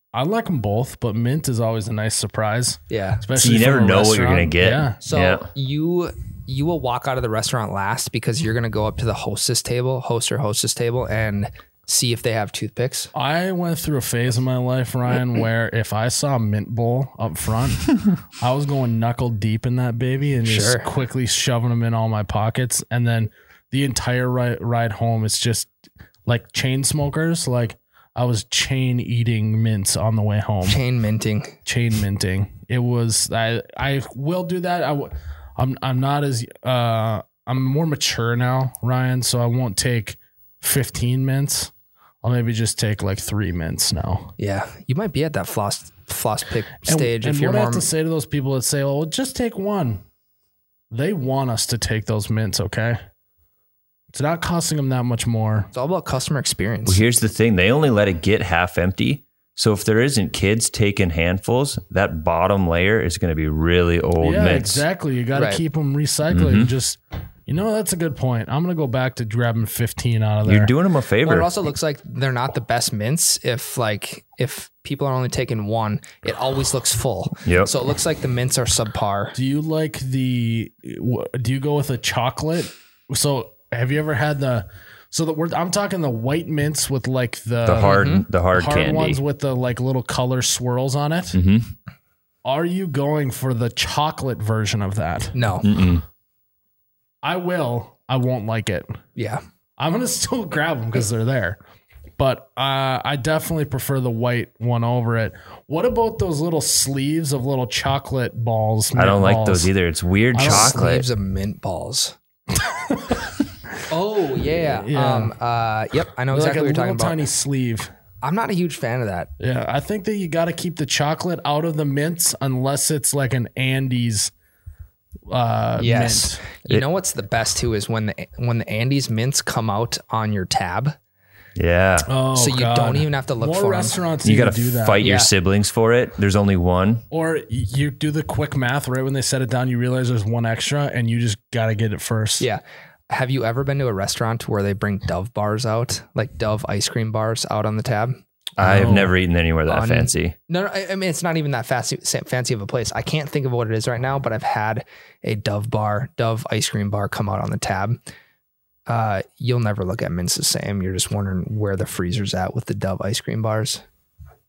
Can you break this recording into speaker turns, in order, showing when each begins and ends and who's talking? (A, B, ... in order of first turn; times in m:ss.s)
0:00.1-0:05.0 A
0:02.9-0:03.2 B
0:03.4-0:05.5 C
0:05.0-0:13.1 B
0:13.1-0:25.7 A
0:20.4-0:20.9 B
0:26.3-0:30.8 A
0:30.6-0:31.6 B
0:31.6-0:41.7 A
0:42.2-0:44.3 A
0:44.4-0:47.8 B
0:46.8-0:50.0 A
0:50.9-0:53.0 A
0:54.1-0:55.7 A
0:55.7-0:57.0 B
0:56.8-1:04.8 C
1:04.2-1:10.7 A
1:05.3-1:05.6 B
1:06.3-1:06.7 C
1:10.4-1:11.5 C
1:11.2-1:19.4 B
1:17.4-1:17.7 C
1:19.3-1:31.4 A
1:27.6-1:29.2 C
1:27.8-1:28.2 B
1:31.3-1:31.7 C
1:32.4-1:35.4 A
1:35.3-1:35.6 B
1:35.6-1:36.0 C
1:37.2-1:39.0 A
1:39.2-1:39.4 B
1:39.8-1:41.6 A
1:42.2-1:49.7 A
1:48.9-1:51.1 C
1:50.3-1:50.8 A
1:50.4-1:52.1 B
1:52.5-1:53.3 A
1:53.9-1:57.2 B
1:54.7-1:55.3 A
1:56.3-1:57.9 A
1:58.2-1:59.3 B
1:59.4-2:04.3 A
2:05.3-2:06.4 A
2:05.8-2:11.0 B
2:11.6-2:12.1 C
2:12.0-2:15.0 A
2:12.3-2:14.0 B
2:14.2-2:17.0 C
2:15.0-2:15.3 B
2:17.1-2:22.5 A
2:22.4-2:28.2 B
2:28.6-2:30.3 C
2:28.6-2:29.1 A
2:29.7-2:38.0 B
2:38.9-2:43.8 B